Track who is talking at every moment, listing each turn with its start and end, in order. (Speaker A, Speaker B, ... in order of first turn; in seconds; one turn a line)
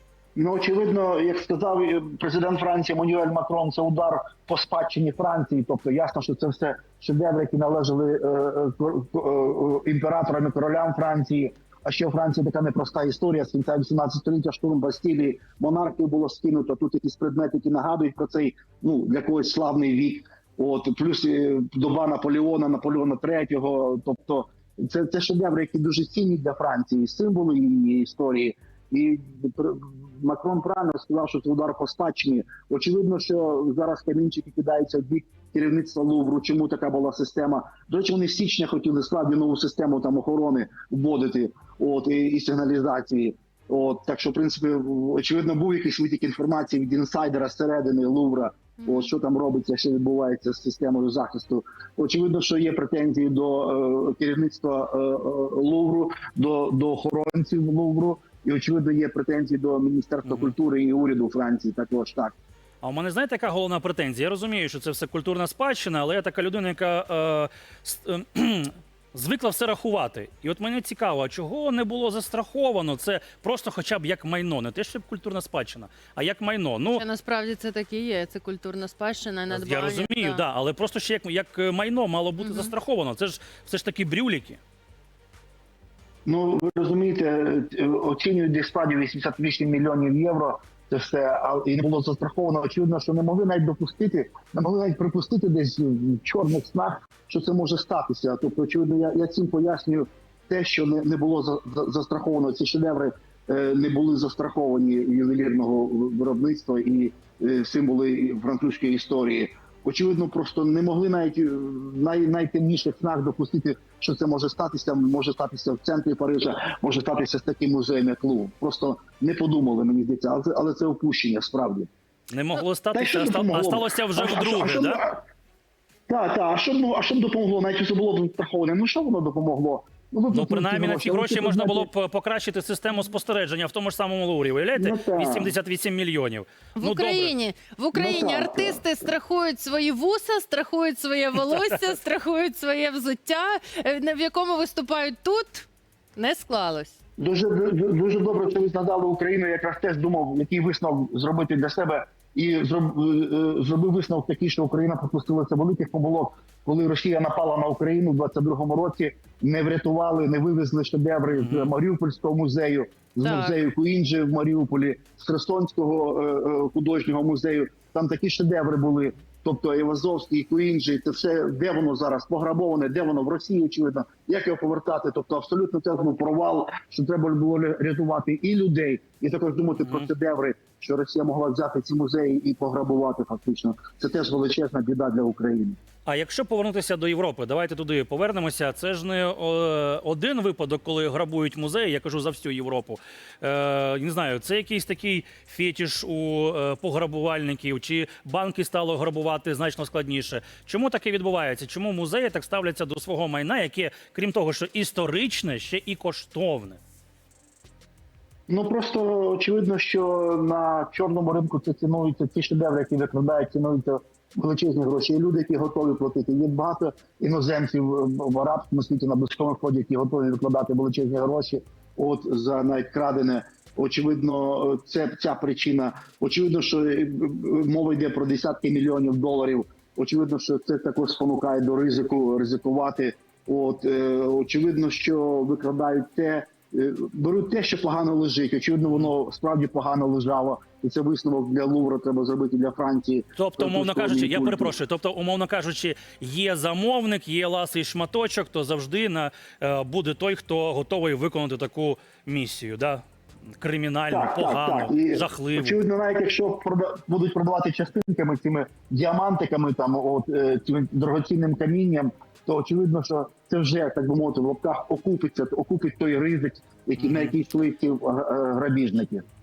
Speaker A: 0.4-62.3
Speaker B: 48.8-49.1
Speaker C: 60.2-60.5
Speaker C: 62.8-77.0
Speaker B: 76.9-80.4
Speaker C: 79.5-84.6
Speaker B: 82.4-82.7
Speaker A: 86.3-121.9
Speaker C: 122.3-125.0
Speaker A: 122.9-125.2
Speaker A: 126.1-131.9
Speaker C: 130.3-137.3
Speaker A: 134.8-135.6
Speaker B: 136.8-147.0
Speaker A: 137.9-138.8
Speaker A: 147.2-185.8
Speaker C: 161.3-161.7
Speaker B: 163.2-163.6
Speaker C: 186.1-206.8
Speaker A: 208.5-244.8
Speaker C: 238.8-239.1
Speaker C: 243.3-253.0
Speaker C: 253.6-255.8
Speaker A: 254.1-269.2
Speaker C: 267.0-267.3